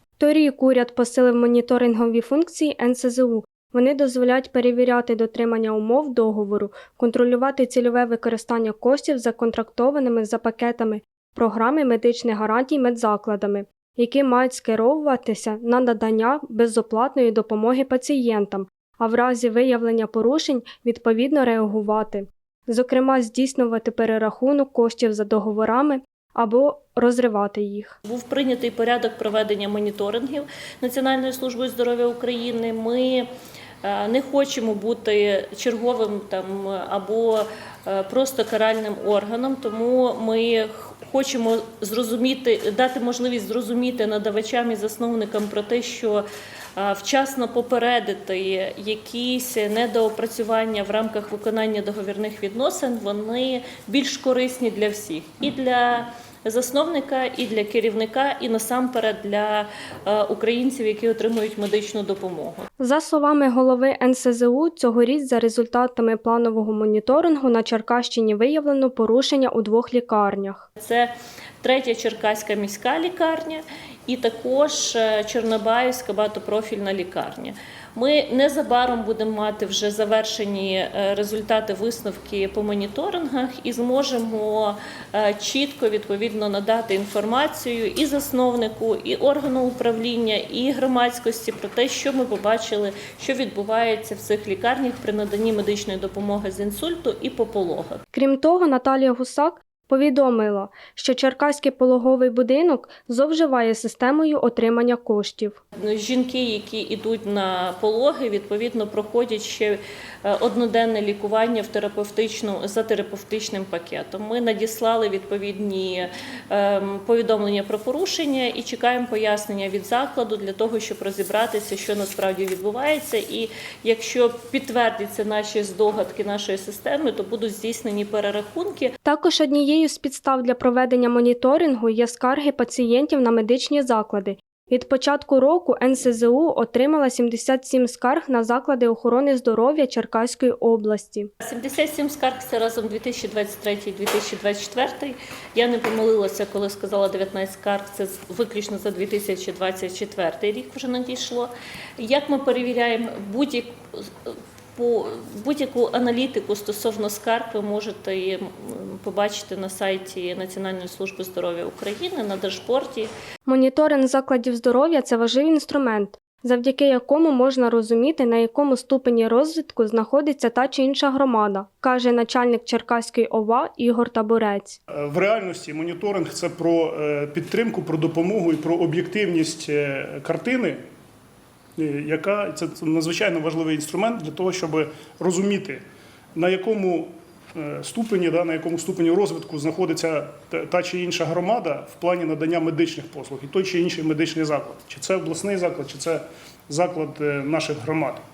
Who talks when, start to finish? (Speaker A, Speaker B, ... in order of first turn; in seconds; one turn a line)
Speaker A: 0.2-28.0
Speaker B: 28.1-33.3
Speaker B: 33.8-46.2
Speaker B: 46.8-62.7
Speaker A: 62.8-70.7
Speaker B: 70.8-98.0
Speaker A: 98.1-105.6
Speaker B: 105.8-128.9
Speaker A: 129.0-141.3
Speaker B: 141.4-163.1
Speaker A: 163.5-174.8
Speaker C: 175.0-180.8
Speaker C: 181.8-185.8
Speaker C: 186.4-198.2